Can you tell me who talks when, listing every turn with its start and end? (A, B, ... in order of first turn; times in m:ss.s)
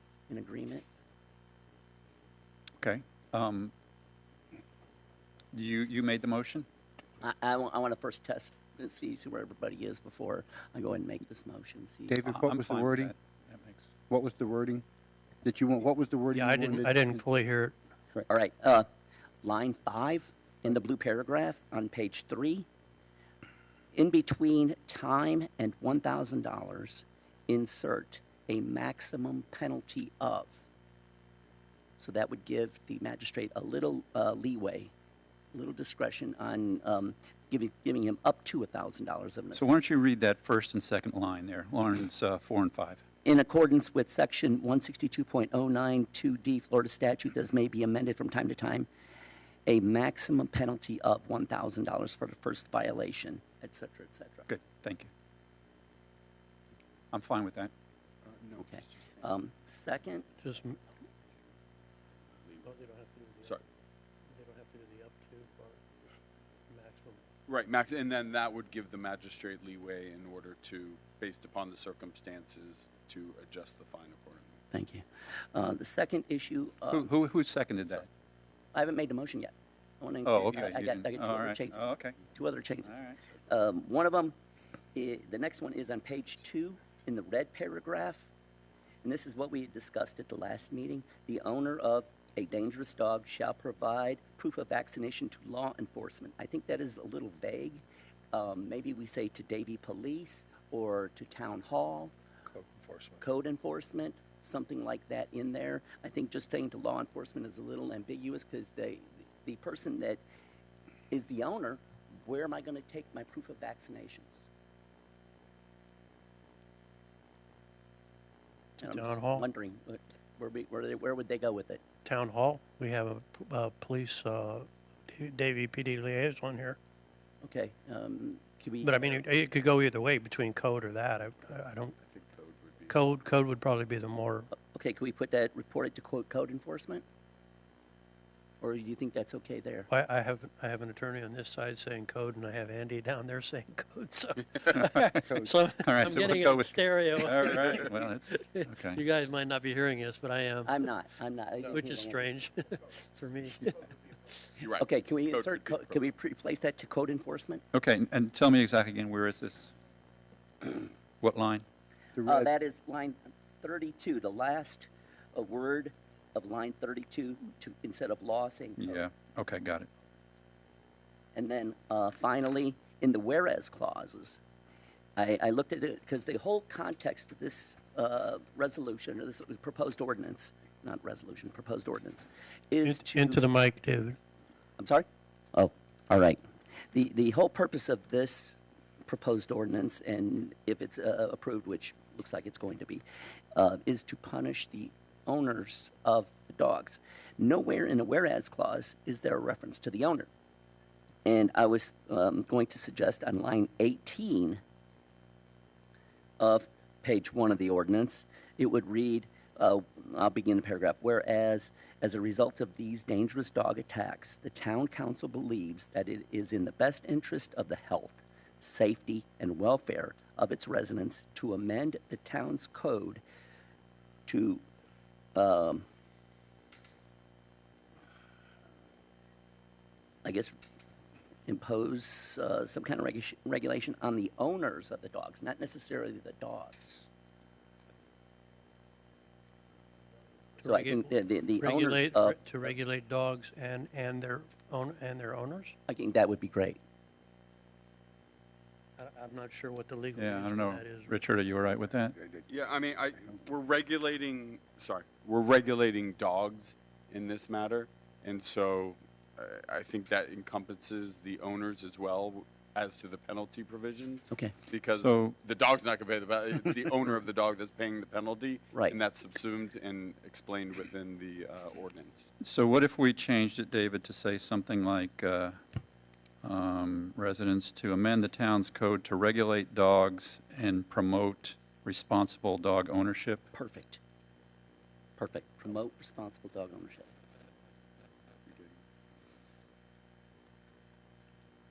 0:00.3-0:00.8 A
0:02.8-0:03.7 B
0:05.5-0:06.7 B
0:07.2-0:12.2 A
0:12.1-0:13.1 C
0:12.2-0:13.9 B
0:14.1-0:14.8 C
0:15.4-0:17.1 C
0:16.3-0:17.8 D
0:18.3-0:18.9 A
0:19.4-0:22.7 A
0:23.9-0:30.7 A
0:32.0-0:34.9 A
0:35.5-0:39.7 A
0:39.5-0:43.0 B
0:43.2-0:48.9 A
0:49.7-0:54.5 A
0:54.5-0:55.1 B
0:57.1-0:57.7 B
0:58.2-0:59.1 E
0:58.6-1:00.3 A
1:00.4-1:00.8 D
1:02.6-1:03.6 D
1:04.3-1:05.8 D
1:06.7-1:07.2 D
1:07.5-1:14.6 E
1:14.7-1:17.1 A
1:16.9-1:18.1 B
1:18.7-1:24.3 A
1:20.2-1:22.2 B
1:22.8-1:23.2 B
1:24.9-1:28.3 A
1:29.0-1:42.1 A
1:42.6-1:43.2 B
1:43.2-1:50.2 A
1:51.1-1:54.5 A
1:58.8-1:59.4 D
1:58.8-2:01.8 A
2:02.0-2:06.8 D
2:07.4-2:09.2 A
2:08.8-2:12.0 D
2:12.0-2:13.0 E
2:12.9-2:14.5 D
2:14.7-2:17.0 A
2:18.6-2:19.9 A
2:19.9-2:30.9 D
2:24.7-2:25.2 B
2:25.8-2:29.0 B
2:30.7-2:32.3 A
2:31.7-2:33.9 D
2:34.6-2:36.0 E
2:34.8-2:37.6 A
2:37.7-2:39.8 B
2:41.2-2:41.6 B
2:42.2-2:42.5 C
2:42.2-2:48.8 A
2:48.8-2:49.9 B
2:51.3-2:54.4 A
2:55.2-3:03.4 A
3:02.8-3:04.2 D
3:04.8-3:06.4 A
3:06.9-3:20.3 A
3:21.2-3:24.6 A
3:26.4-3:43.2 A
3:44.3-3:44.6 A
3:45.3-3:45.8 A
3:50.2-3:50.5 A
3:51.5-3:57.1 A
4:00.6-4:05.8 D
4:00.6-4:02.4 A
4:05.9-4:06.8 A
4:09.0-4:11.1 D
4:10.2-4:12.2 B
4:12.5-4:32.3 E
4:25.0-4:25.3 B
4:32.4-4:35.6 B
4:36.4-4:43.4 B
4:43.5-4:44.0 A
4:45.2-4:47.1 A
4:48.5-4:48.7 E